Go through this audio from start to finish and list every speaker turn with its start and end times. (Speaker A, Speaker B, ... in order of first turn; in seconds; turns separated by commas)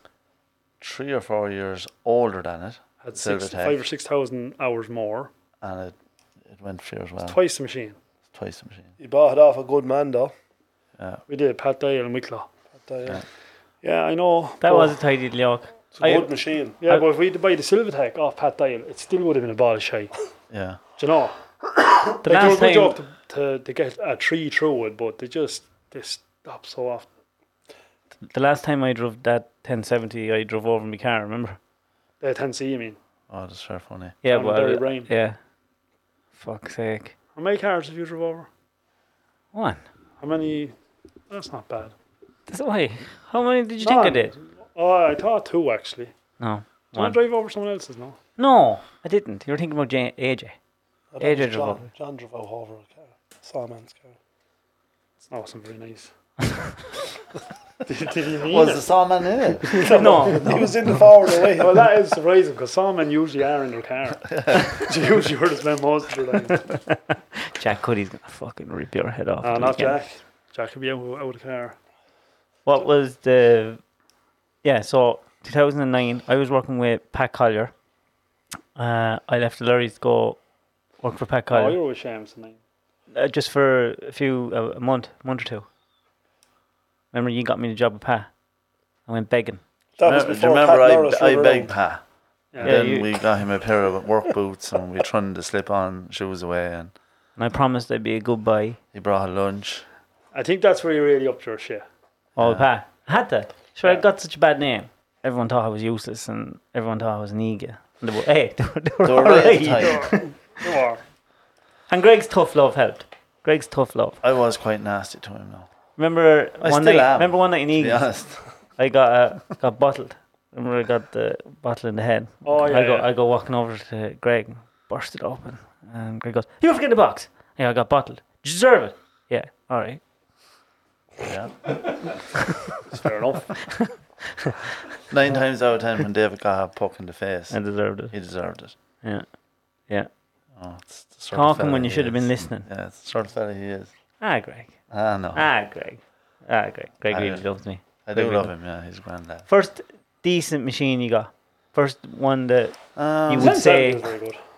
Speaker A: 0.8-3.8, Speaker B: 3.0-5.3, Speaker A: 5.6-6.0, Speaker A: 6.5-7.4, Speaker B: 7.2-8.0, Speaker A: 8.3-8.9, Speaker C: 9.0-10.3, Speaker B: 11.3-12.5, Speaker C: 12.8-13.2, Speaker B: 13.8-14.9, Speaker D: 14.6-16.3, Speaker C: 16.0-16.8, Speaker B: 16.8-20.1, Speaker A: 20.5-20.8, Speaker B: 21.0-27.1, Speaker D: 22.2-23.0, Speaker D: 28.3-31.6, Speaker B: 32.2-33.0, Speaker A: 33.3-34.2, Speaker D: 34.2-35.4, Speaker B: 34.3-35.1, Speaker D: 36.4-37.1, Speaker B: 37.4-38.5, Speaker D: 39.5-39.8, Speaker B: 40.2-40.8, Speaker B: 41.3-41.9, Speaker D: 42.5-44.4, Speaker B: 43.8-46.1, Speaker D: 46.4-47.2, Speaker B: 46.9-48.2, Speaker D: 48.4-50.6, Speaker C: 51.1-54.1, Speaker D: 51.2-51.8, Speaker B: 55.3-56.1, Speaker B: 57.9-58.9, Speaker A: 58.5-59.8, Speaker B: 59.7-60.3, Speaker C: 59.7-61.7, Speaker D: 59.8-61.1, Speaker B: 61.5-66.7, Speaker A: 64.3-64.8, Speaker D: 66.5-70.0, Speaker B: 69.4-71.8, Speaker D: 72.7-73.8, Speaker D: 74.6-77.7, Speaker D: 78.8-80.4, Speaker D: 81.0-81.8, Speaker B: 81.5-82.6, Speaker D: 83.1-85.7, Speaker D: 87.1-88.3, Speaker D: 89.1-89.6, Speaker C: 90.0-91.7, Speaker A: 90.0-92.0, Speaker B: 92.5-92.8, Speaker A: 92.6-96.9, Speaker D: 92.6-93.2, Speaker D: 97.4-98.8, Speaker A: 98.9-99.8, Speaker B: 100.3-101.8, Speaker A: 102.4-102.7, Speaker D: 102.4-110.3, Speaker A: 109.0-110.1, Speaker B: 109.7-111.0, Speaker D: 111.9-114.2, Speaker A: 114.2-115.7, Speaker D: 116.0-118.1, Speaker A: 116.6-118.5, Speaker D: 118.8-130.0, Speaker B: 122.5-123.1, Speaker A: 131.2-132.1, Speaker B: 132.9-133.8, Speaker D: 133.7-134.0, Speaker A: 135.1-137.6, Speaker D: 137.5-138.1, Speaker A: 138.1-138.8, Speaker A: 140.6-143.9, Speaker D: 141.3-142.7, Speaker D: 144.2-144.8, Speaker A: 144.9-145.5, Speaker D: 145.3-148.4, Speaker A: 147.1-147.4, Speaker A: 148.0-149.5, Speaker D: 149.5-154.1, Speaker A: 153.0-153.5, Speaker B: 153.4-154.4